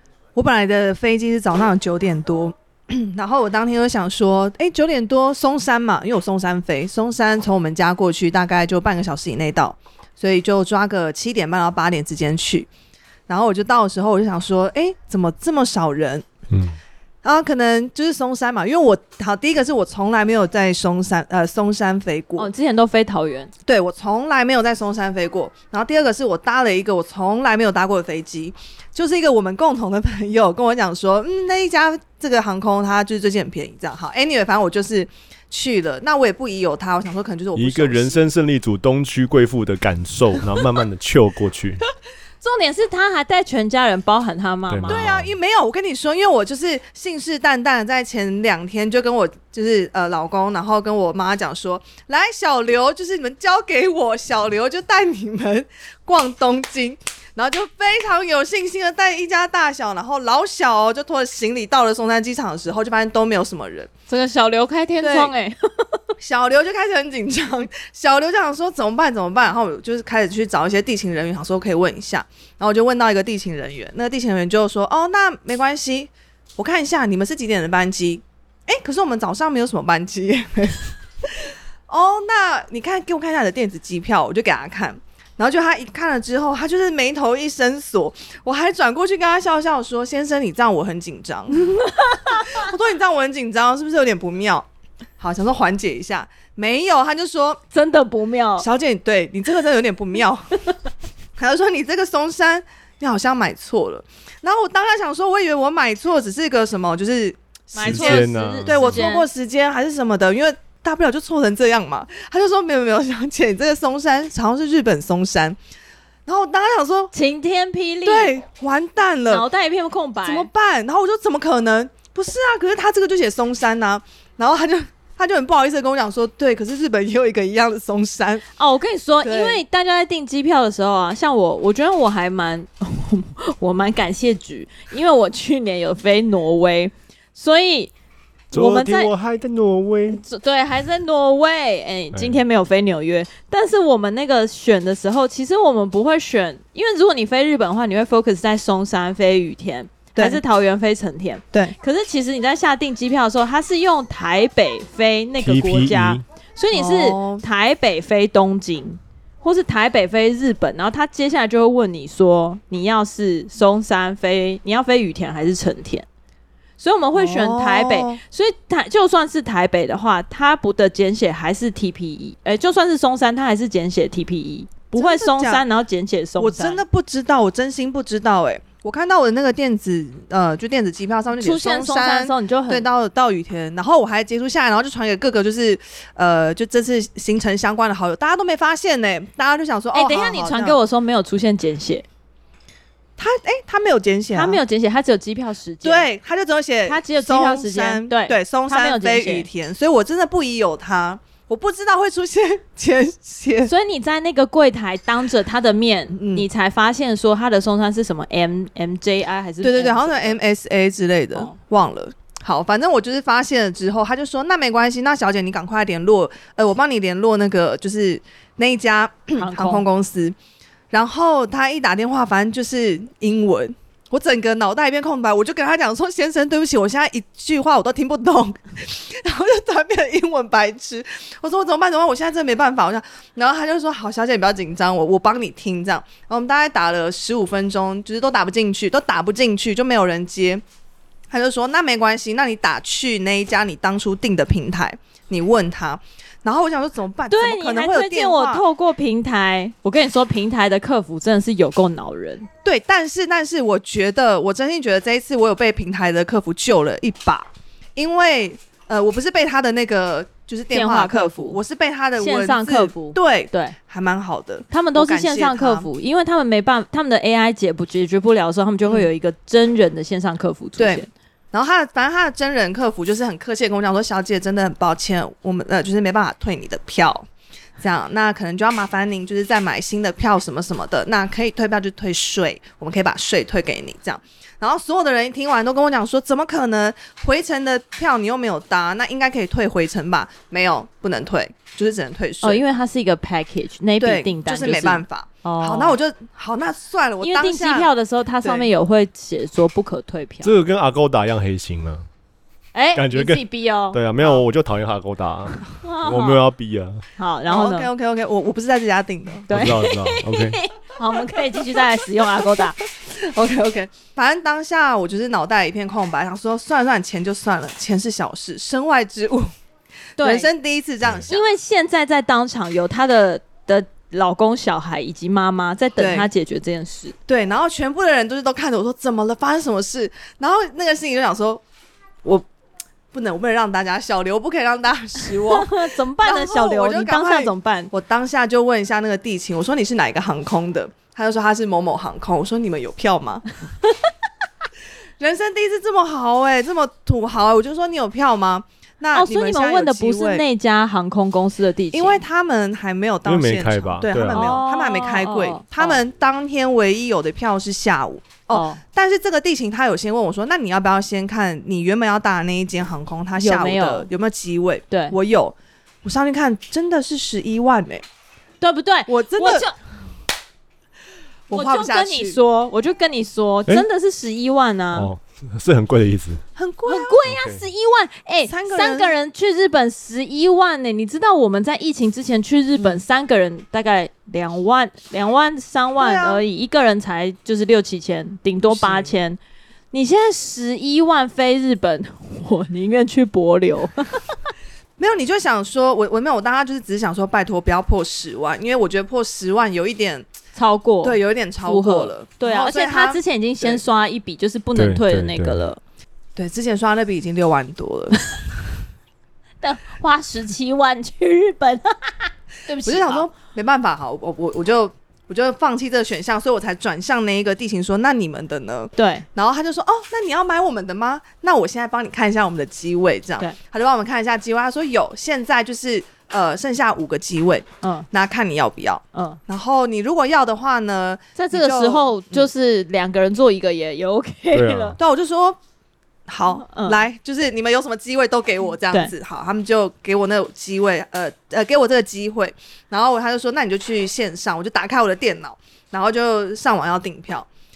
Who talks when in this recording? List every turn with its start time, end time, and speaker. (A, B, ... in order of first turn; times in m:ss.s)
0:00.4-0:12.7 A
0:13.3-0:16.3 A
0:16.5-0:16.8 B
0:17.2-0:22.5 A
0:22.4-0:23.5 C
0:23.7-0:38.2 A
0:37.6-0:41.8 B
0:42.4-0:45.1 C
0:44.7-0:45.3 B
0:44.9-1:03.9 A
1:04.1-1:06.0 C
1:05.0-1:05.3 A
1:06.2-1:34.7 A
1:31.6-1:32.7 C
1:35.2-1:37.6 A
1:37.7-1:38.7 C
1:38.6-1:40.6 A
1:41.4-1:55.6 A
1:47.7-1:49.3 C
1:47.8-1:49.0 B
1:56.3-1:57.1 A
1:57.1-1:58.3 C
1:58.0-1:59.4 A
1:59.3-2:00.5 C
2:00.2-2:08.4 A
2:08.6-2:17.9 C
2:09.2-2:09.6 A
2:18.5-2:19.1 C
2:18.5-2:20.2 B
2:20.1-2:46.1 C
2:22.1-2:22.4 B
2:30.2-2:30.4 A
2:35.4-2:36.2 B
2:36.7-2:37.4 A
2:46.8-2:56.8 C
2:47.2-2:48.2 A
2:54.9-2:55.6 A
2:56.4-3:10.8 A
3:01.4-3:02.8 C
3:09.9-3:12.0 C
3:13.2-3:14.6 A
3:14.3-3:16.1 C
3:15.8-3:23.7 A
3:16.9-3:19.5 C
3:23.7-3:30.4 C
3:26.1-3:26.5 A
3:29.6-3:40.4 A
3:39.4-3:39.8 C
3:40.9-4:00.6 A
4:01.3-4:08.6 A
4:07.3-4:12.5 C
4:12.6-4:25.9 A
4:20.7-4:21.6 C
4:22.2-4:23.8 C
4:24.7-4:31.1 C
4:30.8-4:37.3 A
4:37.8-4:52.6 A
4:52.4-4:56.0 C
4:54.0-4:57.9 A
4:57.2-5:00.5 C
4:58.4-4:58.7 A
5:00.4-5:02.1 B
5:02.7-5:04.4 C
5:03.0-5:07.0 B
5:05.8-5:06.4 C
5:07.2-5:07.9 C
5:07.5-5:09.5 A
5:09.5-5:12.8 C
5:09.5-5:10.6 B
5:11.7-5:19.5 A
5:20.2-5:20.5 C
5:20.2-5:21.5 A
5:21.0-5:21.3 B
5:21.3-5:27.2 C
5:26.0-5:26.3 A
5:27.3-5:31.6 A
5:33.1-5:43.5 A
5:35.4-5:37.9 C
5:45.2-5:50.4 A
5:49.1-5:52.2 C
5:51.9-6:08.0 A
5:53.2-5:54.5 B
5:54.2-5:56.0 C
5:58.5-5:58.8 C
6:03.4-6:04.1 C
6:04.9-6:05.2 C
6:08.6-6:09.7 C
6:09.1-6:09.7 A
6:11.5-6:12.4 A
6:11.5-6:15.1 C
6:14.9-6:16.4 B
6:16.6-6:17.2 A
6:16.9-6:29.4 C
6:17.2-6:17.6 B
6:18.5-6:19.2 A
6:26.0-6:26.4 A
6:28.7-6:29.1 A
6:29.9-6:34.4 C
6:35.0-6:40.3 A
6:40.6-6:45.8 C
6:41.0-6:43.8 A
6:44.8-6:45.6 B
6:46.4-6:48.3 A
6:49.6-6:53.3 C
6:52.8-7:12.5 A
6:59.0-6:59.3 C
7:07.8-7:08.1 C
7:09.1-7:09.4 C
7:11.4-7:15.0 C
7:14.5-7:15.0 B
7:15.0-7:15.6 A
7:16.3-7:27.5 A
7:16.5-7:17.0 C